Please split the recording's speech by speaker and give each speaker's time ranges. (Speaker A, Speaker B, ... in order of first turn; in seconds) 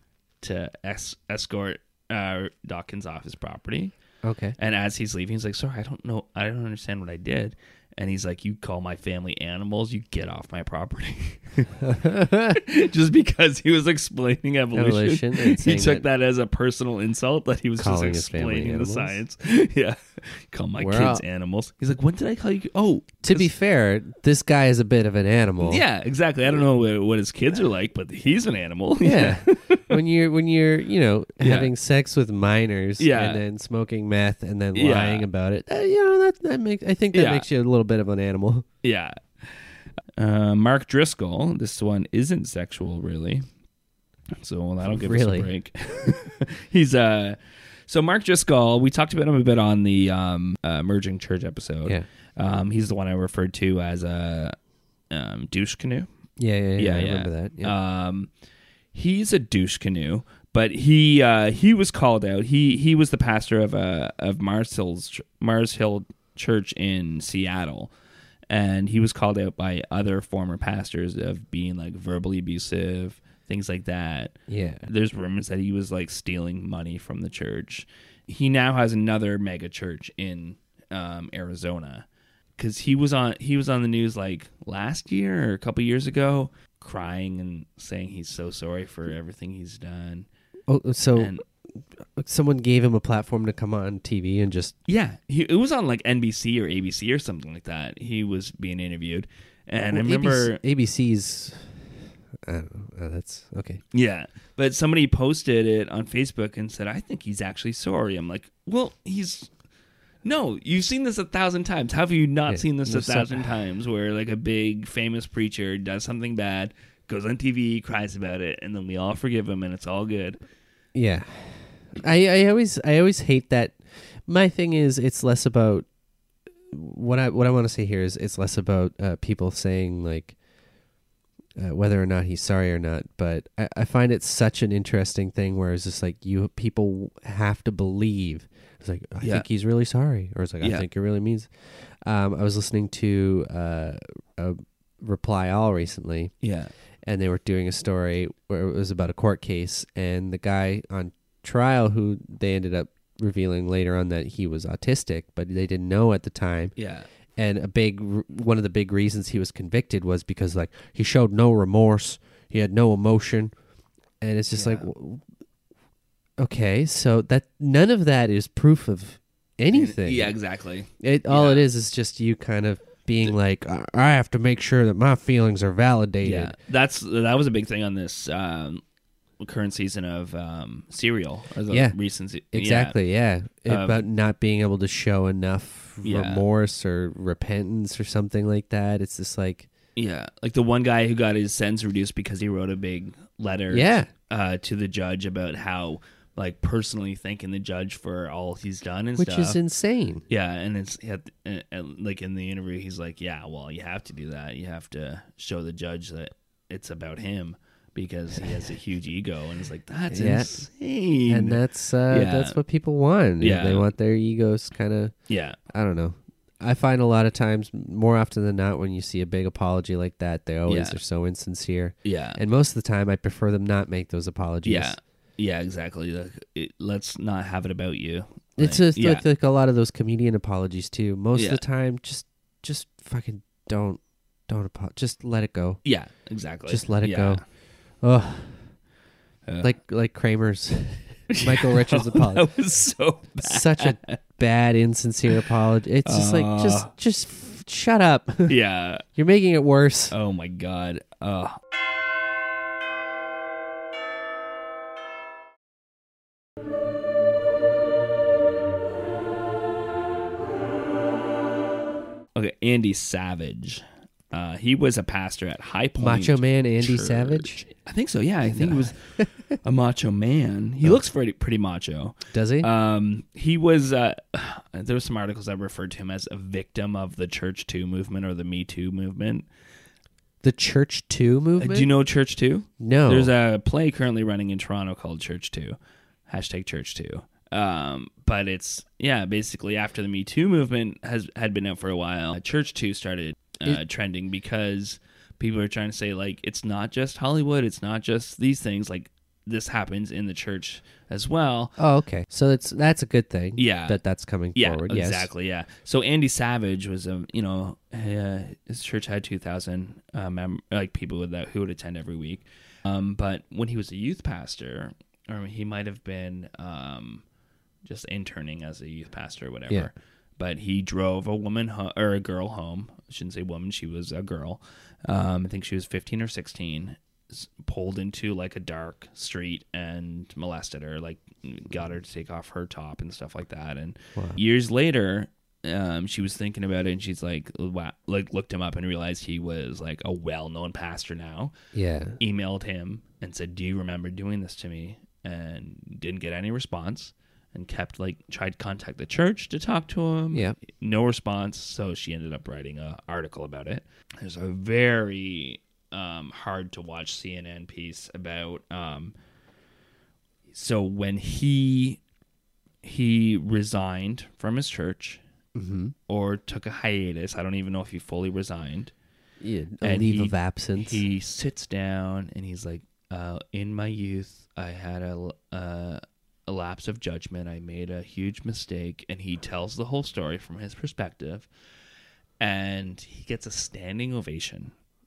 Speaker A: 0.4-4.0, 4.6-11.8, 12.6-23.5, 25.6-29.8, 31.4-31.7, 33.0-33.4, 34.7-35.2, 37.1-37.5, 38.8-39.6, 40.2-43.5, 44.4-56.1, 56.8-58.3, 58.9-67.9, 68.5-82.1, 82.6-90.3, 91.2-91.4, 94.9-100.6, 103.9-109.5, 110.2-120.4, 140.6-140.9, 146.4-146.7, 156.8-157.1, 164.6-164.9, 169.7-171.7, 176.2-178.8, 179.4-183.0, 183.7-184.0, 186.0-186.4, 189.9-199.6, 200.3-212.6, 213.4-213.9, 215.3-215.6, 220.7-221.0, 222.0-222.4, 224.6-229.2, 231.3-231.6, 235.8-237.4, 239.4-239.7, 241.3-244.2, 246.1-246.9, 248.5-249.1, 250.1-251.5, 262.4-279.5, 281.6-301.7, 303.6-304.0, 304.5-317.2, 317.8-341.6, 342.2-359.1, 360.5-362.0, 362.8-365.2, 366.1-368.9, 369.8-381.5, 382.4-384.7
Speaker B: 4.2-4.5, 11.8-12.6, 14.7-16.0, 17.8-19.2, 20.8-21.2, 23.2-25.9, 29.0-38.7, 44.8-45.5, 56.4-57.8, 74.5-74.9, 90.7-94.7, 99.9-103.8, 112.5-113.5, 120.9-125.9, 126.7-130.4, 131.6-146.3, 147.0-156.7, 157.3-163.5, 164.2-165.2, 166.4-176.6, 181.7-189.7, 193.7-194.1, 199.2-200.2, 210.1-210.7, 211.2-225.0, 228.6-235.8, 236.7-238.8, 239.6-242.7, 243.4-250.1, 266.0-267.6, 268.5-269.6, 270.8-271.1, 272.3-272.7, 280.4-281.9, 282.8-283.3, 301.8-305.3, 341.7-342.2, 350.3-350.6, 365.6-365.9, 369.4-371.0